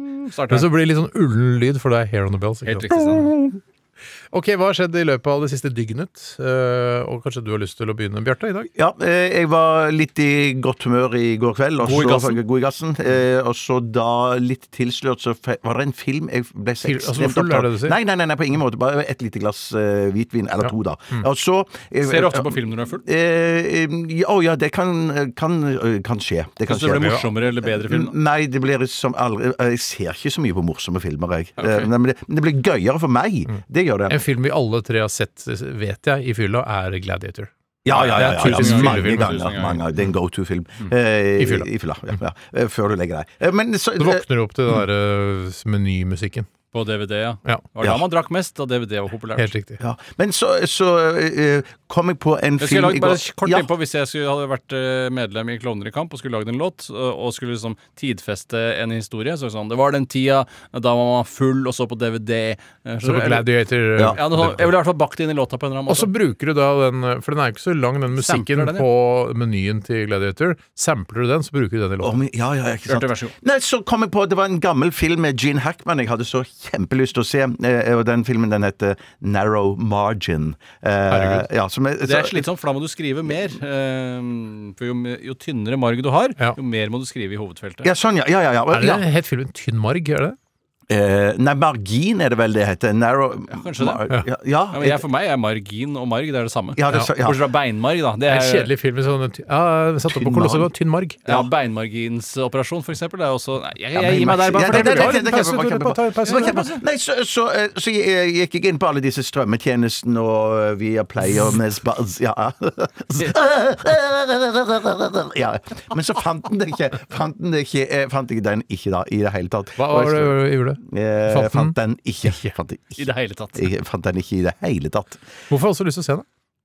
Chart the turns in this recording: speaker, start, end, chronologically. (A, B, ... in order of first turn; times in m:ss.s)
0:00.2-0:00.7 A
0:00.5-0:03.6 B
0:02.6-0:03.3 A
0:04.3-0:08.7 B
0:08.8-0:34.2 C
0:11.8-0:12.4 A
0:16.8-0:18.0 B
0:20.6-0:21.2 B
0:22.0-0:23.0 A
0:26.7-0:28.1 A
0:31.6-0:31.9 A
0:34.1-0:40.1 B
0:37.8-0:44.2 C
0:37.9-0:39.8 A
0:41.4-0:42.2 B
0:44.0-0:46.5 B
0:46.7-0:49.5 A
0:49.4-0:49.8 B
0:49.8-0:53.7 C
0:52.6-1:06.1 A
1:03.0-1:04.7 B
1:05.9-1:12.2 B
1:08.2-1:08.9 A
1:12.0-1:22.4 C
1:12.9-1:13.3 A
1:21.1-1:21.5 B
1:22.0-1:27.9 A
1:27.8-1:29.0 C
1:28.7-1:30.4 B
1:30.9-1:35.0 C
1:33.5-1:34.0 A
1:34.7-1:38.7 A
1:36.7-1:37.4 C
1:38.3-1:41.2 B
1:40.1-1:40.7 C
1:41.2-1:45.2 A
1:43.9-2:05.2 C
1:44.5-1:46.7 B
1:46.2-1:46.8 A
1:59.8-2:02.5 B
2:03.0-2:03.7 A
2:05.5-2:06.2 B